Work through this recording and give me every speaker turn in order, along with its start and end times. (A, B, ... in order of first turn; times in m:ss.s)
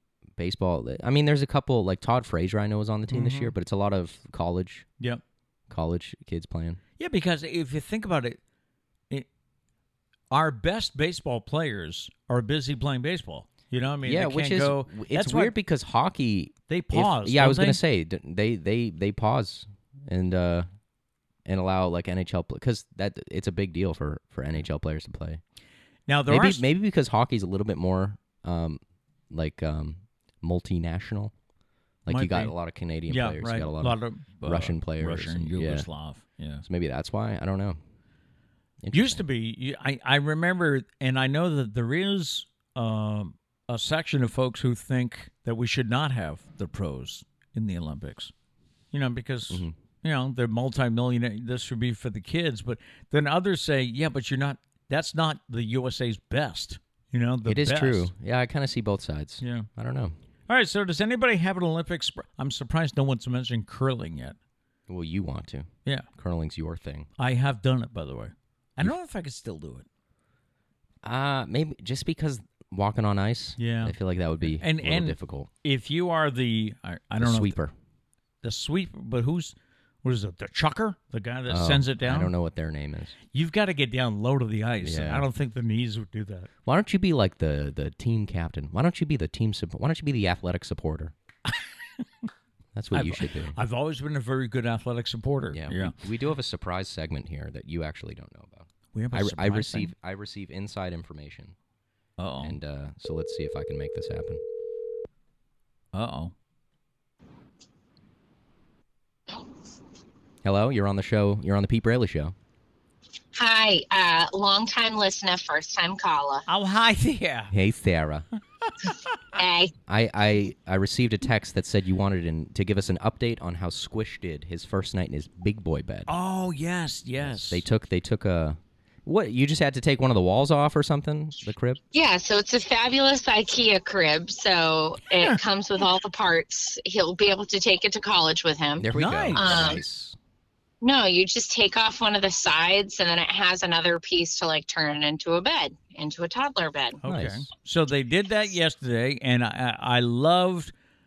0:00.4-0:04.9 A
0:03.1-0:03.5 B
0:05.7-0:06.8 A
0:07.0-0:08.4 B
0:10.3-0:15.5 B
0:14.0-0:20.7 A
0:16.7-0:17.8 B
0:21.5-0:25.4 A
0:26.1-0:26.6 B
0:26.3-0:28.8 A
0:29.3-0:31.3 A
0:32.0-0:35.9 A
0:32.1-0:32.5 B
0:33.1-0:36.6 B
0:36.6-0:37.8 A
0:38.8-0:39.2 A
0:38.9-0:48.3 B
0:48.9-0:58.1 B
0:57.4-1:00.2 A
0:59.4-0:59.7 B
1:00.5-1:04.4 B
1:04.9-1:07.1 A
1:07.2-1:09.9 B
1:11.0-1:15.5 A
1:13.6-1:17.6 B
1:17.2-1:17.7 A
1:18.4-1:22.3 B
1:21.5-1:23.2 A
1:23.3-1:26.5 B
1:24.8-1:25.3 A
1:26.6-1:31.1 A
1:32.8-1:33.6 A
1:32.9-1:36.0 B
1:35.5-1:41.6 A
1:38.9-1:39.9 B
1:42.2-1:42.6 B
1:42.4-1:44.4 A
1:45.9-1:46.3 B
1:50.4-1:52.4 A
1:53.3-1:56.5 C
1:56.5-1:57.5 B
1:57.5-1:58.3 A
1:58.6-1:59.1 B
1:59.4-1:59.7 C
1:59.9-2:06.1 A
2:06.1-2:07.6 B
2:07.2-2:11.8 A
2:11.9-2:19.8 C
2:18.8-2:20.2 A
2:18.9-2:19.5 B
2:20.8-2:27.0 C
2:27.0-2:30.7 B
2:27.0-2:27.5 A